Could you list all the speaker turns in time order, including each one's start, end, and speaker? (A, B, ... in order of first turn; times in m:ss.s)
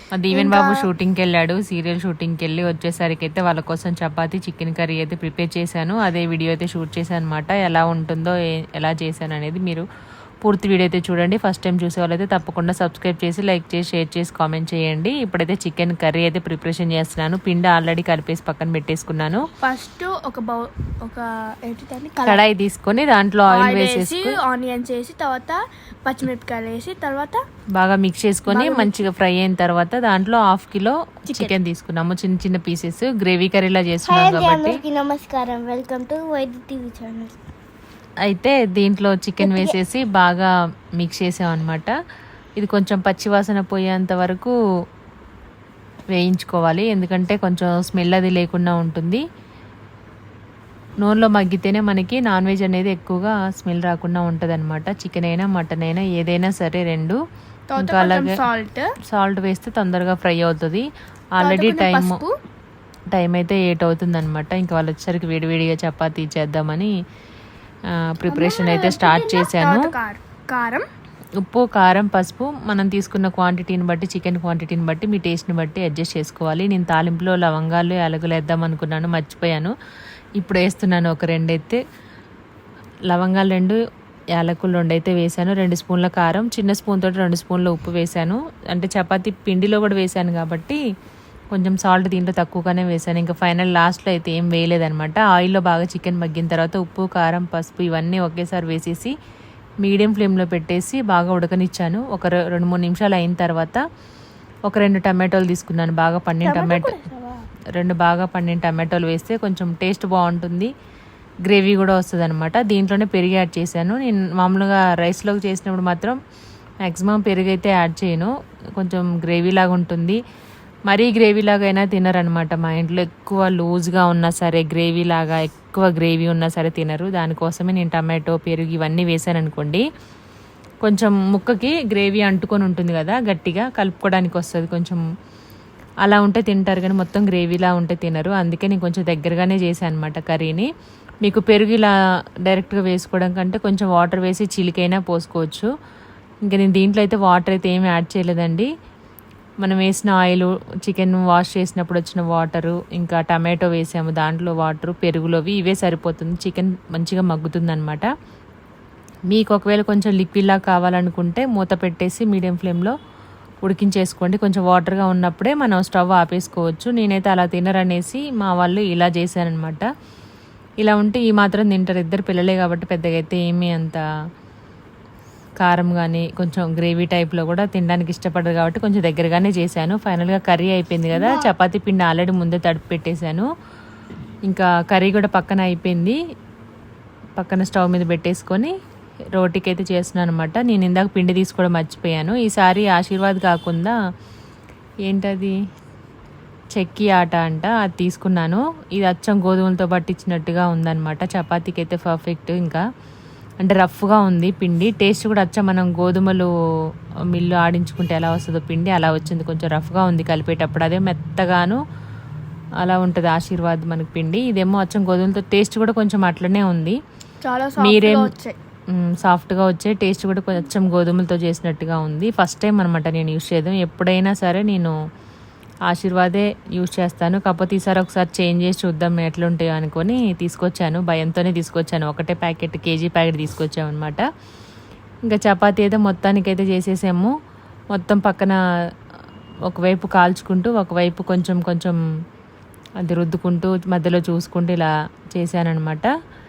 0:00.1-0:09.8 A
0:00.3-0:00.8 B
0:10.4-0:19.4 A
0:19.6-0:22.4 B
0:22.2-0:24.4 A
0:23.5-0:27.4 B
0:27.8-0:34.8 A
0:28.5-0:29.0 B
0:34.1-0:37.4 C
0:38.3-0:41.9 A
0:39.4-0:39.8 C
0:42.6-0:44.5 A
0:46.1-0:49.2 A
0:51.0-0:57.2 A
0:57.7-0:58.9 B
0:57.8-0:58.4 A
0:59.1-1:00.8 A
1:01.4-1:02.2 A
1:01.4-1:02.3 B
1:03.1-1:06.9 A
1:08.0-1:09.9 A
1:08.3-1:10.8 B
1:11.4-1:19.7 A
1:20.4-1:21.8 A
1:23.1-1:23.8 A
1:24.4-1:30.8 A
1:31.5-1:39.1 A
1:39.8-1:43.8 A
1:44.7-1:47.0 A
1:46.4-1:47.4 B
1:47.8-1:50.7 A
1:51.5-1:56.2 A
1:56.8-2:00.2 A
2:00.9-2:09.8 A
2:10.8-2:15.0 A
2:16.0-2:20.7 A
2:21.2-2:21.9 A
2:22.4-2:25.7 A
2:26.5-2:28.7 A
2:29.6-2:38.1 A
2:39.3-2:42.9 A
2:43.6-2:49.8 A
2:50.8-2:54.0 A
2:55.6-3:03.5 A
3:01.2-3:01.5 B
3:04.5-3:06.2 A
3:07.4-3:08.7 A
3:09.4-3:14.0 A
3:15.1-3:15.6 A
3:16.8-3:22.8 A
3:23.6-3:26.5 A
3:27.3-3:31.8 A
3:32.8-3:37.0 A
3:37.4-3:38.6 B
3:37.8-3:38.3 A
3:38.9-3:44.9 A
3:45.9-3:54.2 A
3:55.3-3:57.3 A
3:57.9-3:58.6 A
3:59.7-4:02.0 A
4:03.0-4:06.1 A